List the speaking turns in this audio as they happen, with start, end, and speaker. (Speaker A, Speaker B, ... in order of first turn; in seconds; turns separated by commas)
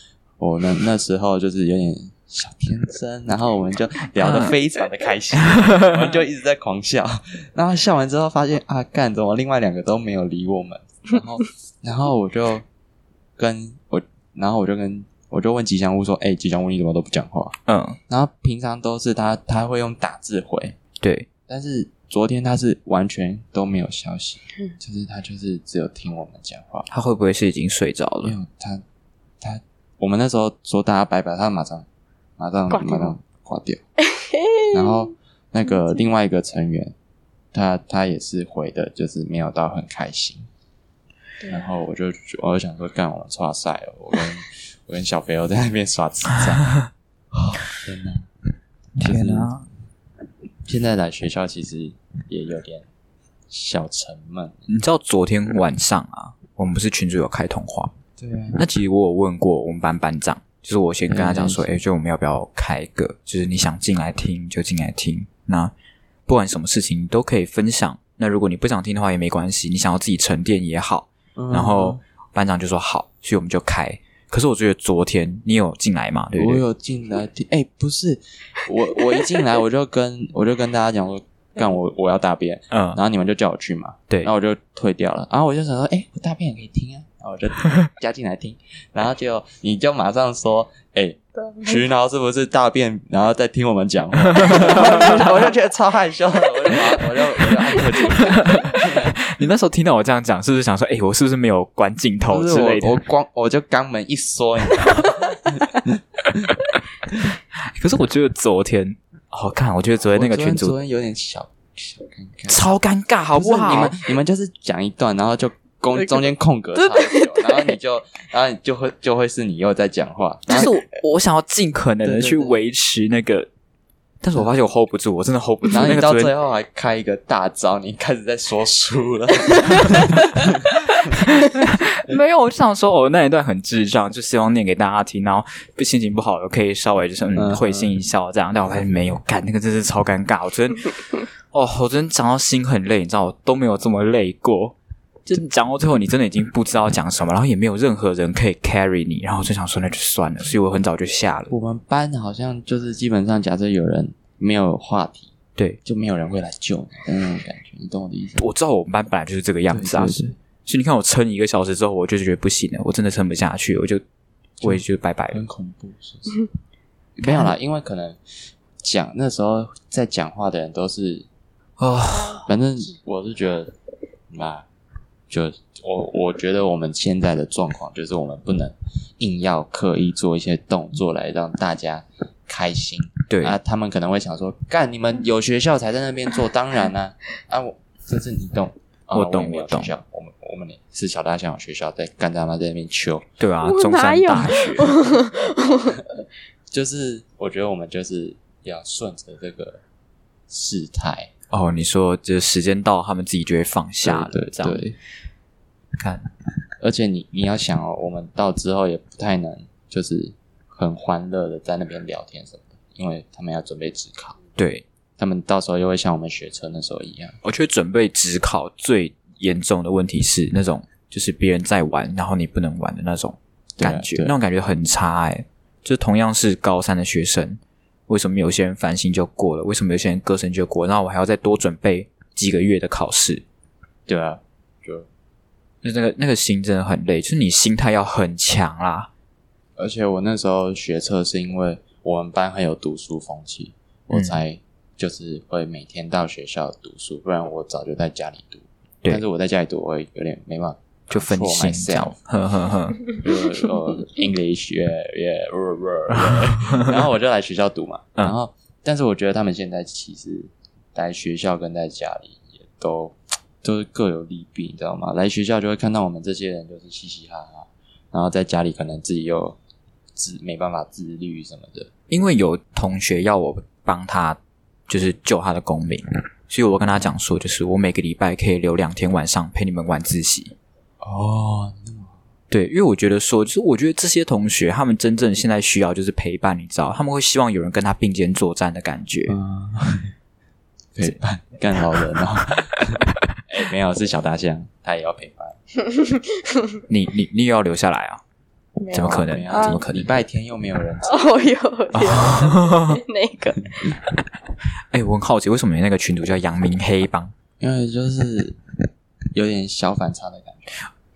Speaker A: 0.4-12.6, Speaker B: 4.2-4.5, Speaker B: 5.5-6.1, Speaker A: 13.4-17.5, Speaker B: 17.7-18.0, Speaker A: 18.1-20.8, Speaker B: 21.0-21.3, Speaker A: 21.5-26.9, Speaker B: 26.9-28.3, Speaker A: 28.2-28.8, Speaker A: 29.4-31.9, Speaker A: 32.4-33.8, Speaker C: 32.7-33.1, Speaker C: 34.0-35.0, Speaker A: 34.7-36.9, Speaker A: 37.5-40.5, Speaker A: 41.5-46.7, Speaker A: 47.4-48.3, Speaker B: 49.0-49.6, Speaker A: 49.0-49.5, Speaker A: 50.6-52.9, Speaker A: 53.5-54.7, Speaker B: 54.7-57.9, Speaker A: 58.2-58.6, Speaker B: 58.6-65.7, Speaker A: 61.1-61.8, Speaker B: 66.3-76.6, Speaker A: 71.3-72.0, Speaker A: 76.3-99.1, Speaker B: 82.7-83.0, Speaker C: 91.4-91.7, Speaker B: 94.4-95.3, Speaker B: 98.3-103.0, Speaker A: 102.3-106.5, Speaker B: 107.8-110.7, Speaker A: 110.1-112.6, Speaker B: 112.5-114.0, Speaker A: 113.3-120.7, Speaker C: 116.8-117.7, Speaker B: 120.5-123.5, Speaker A: 122.0-122.6, Speaker B: 124.2-126.3, Speaker A: 125.7-131.2, Speaker B: 131.2-151.5, Speaker A: 137.3-137.9, Speaker A: 151.5-155.3, Speaker A: 155.8-158.4, Speaker B: 158.4-164.0, Speaker A: 159.7-160.3, Speaker B: 164.6-165.4, Speaker A: 164.6-166.4, Speaker A: 167.2-168.2, Speaker B: 167.2-167.5, Speaker A: 168.8-171.3, Speaker B: 171.8-172.4, Speaker A: 172.4-173.7, Speaker A: 174.3-174.7, Speaker A: 175.3-193.2, Speaker B: 183.3-183.6, Speaker B: 189.1-189.9, Speaker B: 193.4-194.9, Speaker C: 193.6-196.0, Speaker A: 196.7-199.8, Speaker A: 200.5-201.3, Speaker B: 201.5-204.8, Speaker A: 204.0-204.9, Speaker B: 206.0-206.2, Speaker A: 206.8-214.4, Speaker B: 214.6-214.8, Speaker A: 215.2-217.3, Speaker B: 217.4-233.4, Speaker A: 223.8-224.3, Speaker A: 234.1-235.1, Speaker B: 235.8-239.1, Speaker A: 239.8-252.2, Speaker B: 244.1-244.4, Speaker B: 251.1-253.1, Speaker A: 253.1-269.6, Speaker B: 256.1-256.9, Speaker A: 270.1-271.9, Speaker B: 272.1-280.5, Speaker A: 281.0-282.1, Speaker B: 282.5-289.4, Speaker A: 289.3-290.1, Speaker A: 290.9-295.6, Speaker B: 296.9-298.2, Speaker C: 298.8-299.8, Speaker B: 298.9-300.1, Speaker A: 298.9-301.3, Speaker C: 301.1-303.9, Speaker B: 301.9-303.0, Speaker B: 304.9-307.3, Speaker A: 307.6-308.6, Speaker A: 309.3-310.9